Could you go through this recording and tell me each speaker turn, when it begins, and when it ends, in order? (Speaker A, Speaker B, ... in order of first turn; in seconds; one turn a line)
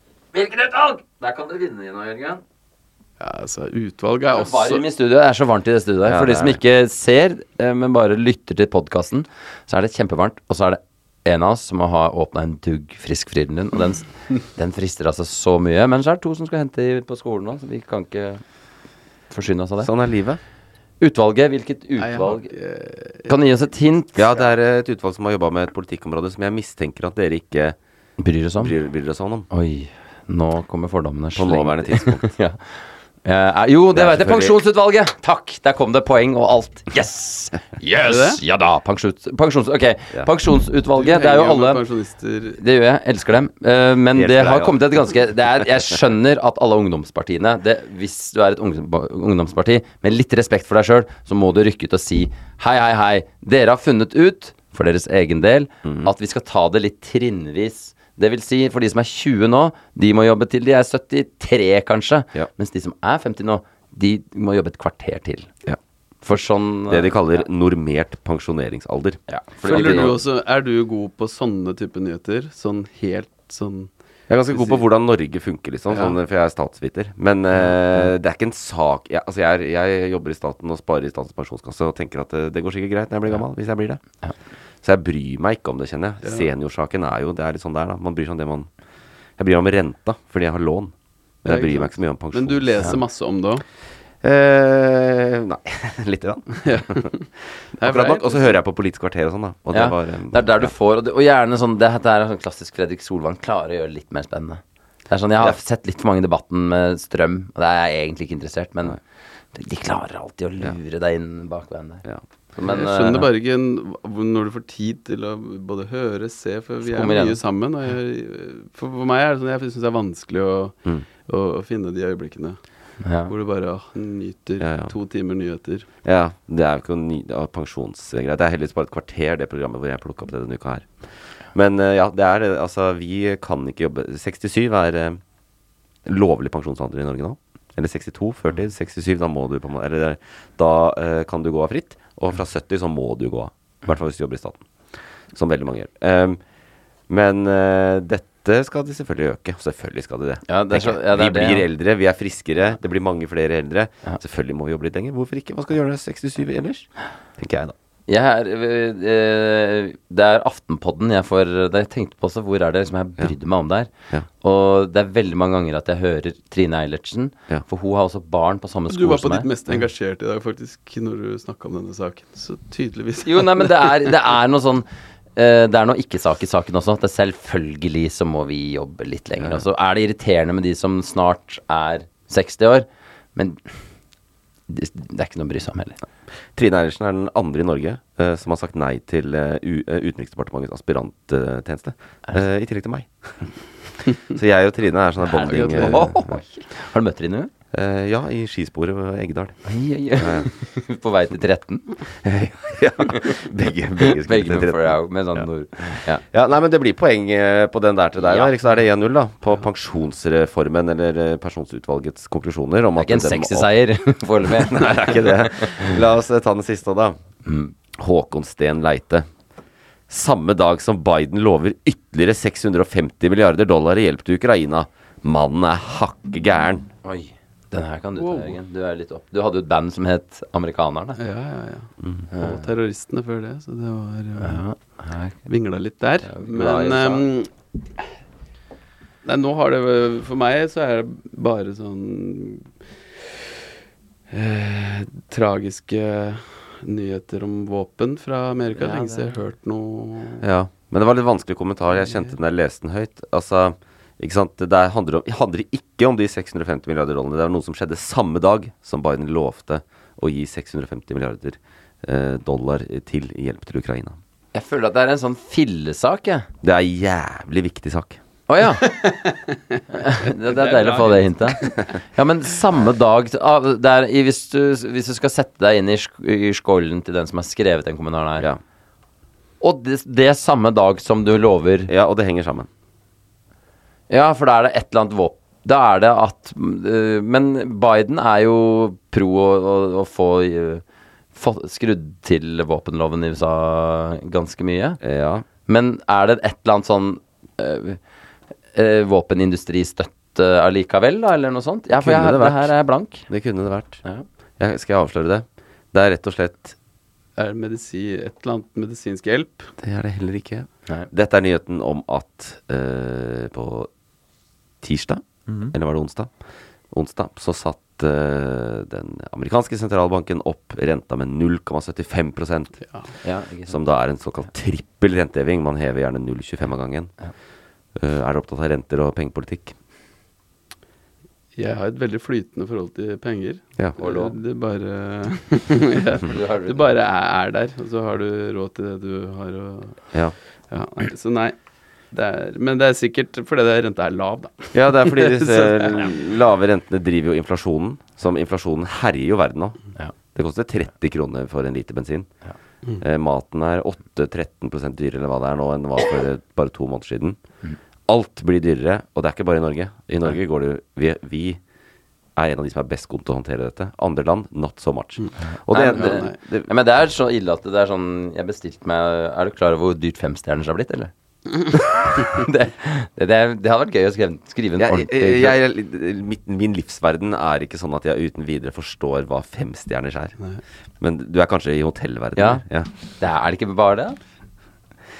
Speaker A: 0.3-2.4
Speaker B: 3.2-4.8
Speaker A: 4.3-18.4
Speaker C: 6.1-6.6
Speaker A: 19.3-19.9
Speaker C: 19.8-20.4
Speaker A: 21.0-22.5
Speaker B: 22.0-23.3
Speaker A: 23.3-24.2
Speaker C: 24.2-27.8
Speaker A: 28.2-28.7
Speaker C: 28.6-29.5
Speaker A: 29.5-41.8
Speaker C: 31.4-32.3
Speaker C: 33.9-34.5
Speaker B: 38.0-38.4
Speaker B: 41.0-42.6
Speaker A: 42.6-65.5
Speaker C: 44.1-44.8
Speaker C: 55.8-56.1
Speaker A: 66.2-67.4
Speaker C: 66.9-70.2
Speaker A: 69.3-70.2
Speaker B: 69.7-73.9
Speaker C: 74.3-84.0
Speaker B: 74.5-74.8
Speaker C: 84.8-88.7
Speaker B: 86.2-86.5
Speaker C: 89.4-90.9
Speaker B: 91.4-93.6
Speaker C: 91.5-93.0
Speaker C: 94.2-97.1
Speaker B: 96.6-98.6
Speaker C: 97.8-100.7
Speaker A: 99.7-109.0
Speaker A: 109.5-112.0
Speaker A: 112.6-113.3
Speaker B: 112.6-122.6
Speaker A: 116.8-117.4
Speaker A: 123.0-123.3
Speaker B: 123.3-125.9
Speaker C: 124.6-124.9
Speaker C: 126.0-135.2
Speaker C: 136.1-144.7
Speaker C: 145.3-146.4
Speaker C: 147.1-157.8
Speaker A: 150.5-151.7
Speaker A: 158.1-163.9
Speaker A: 164.4-169.5
Speaker B: 168.9-174.1
Speaker A: 173.2-183.7
Speaker C: 179.4-179.6
Speaker A: 184.7-186.0
Speaker C: 186.6-193.5
Speaker C: 194.3-196.4
Speaker A: 195.2-197.5
Speaker B: 195.5-196.1
Speaker C: 197.7-200.5
Speaker A: 199.7-202.0
Speaker C: 202.2-213.7
Speaker A: 204.1-206.2
Speaker A: 213.0-215.9
Speaker C: 214.4-217.2
Speaker A: 217.5-217.7
Speaker C: 217.9-219.3
Speaker C: 220.1-226.9
Speaker A: 227.0-231.2
Speaker B: 228.2-228.6
Speaker B: 231.2-234.7
Speaker A: 232.3-232.7
Speaker A: 234.4-235.4
Speaker B: 235.5-237.5
Speaker A: 236.3-237.2
Speaker C: 236.6-237.1
Speaker B: 239.2-242.7
Speaker B: 244.3-250.4
Speaker A: 248.8-249.3
Speaker C: 250.4-264.2
Speaker B: 252.0-252.3
Speaker A: 264.5-266.5
Speaker C: 266.6-268.2
Speaker A: 268.5-269.1
Speaker B: 268.8-269.8
Speaker A: 269.9-271.6
Speaker B: 270.5-271.9
Speaker A: 272.1-278.5
Speaker A: 279.6-281.9
Speaker C: 281.9-282.7
Speaker A: 284.1-290.8
Speaker A: 291.4-295.0
Speaker C: 295.0-295.5
Speaker A: 295.7-298.0
Speaker A: 298.7-303.3
Speaker C: 301.9-302.7
Speaker C: 303.3-304.1
Speaker C: 304.6-306.8
Speaker B: 307.4-309.7
Speaker C: 309.8-313.9
Speaker C: 314.8-316.3
Speaker C: 316.9-322.8
Speaker A: 323.2-323.8
Speaker C: 323.7-327.1
Speaker C: 328.0-329.8
Speaker B: 331.6-340.1
Speaker A: 334.0-334.4
Speaker A: 336.3-336.9
Speaker B: 340.7-341.6
Speaker B: 342.1-346.1
Speaker C: 344.7-352.3
Speaker C: 353.0-357.4
Speaker C: 358.1-361.6
Speaker C: 362.4-366.7
Speaker B: 365.2-366.4
Speaker A: 365.7-371.1
Speaker A: 371.7-375.6
Speaker C: 374.8-380.4
Speaker C: 381.0-382.9
Speaker A: 382.4-382.6
Speaker A: 383.2-384.2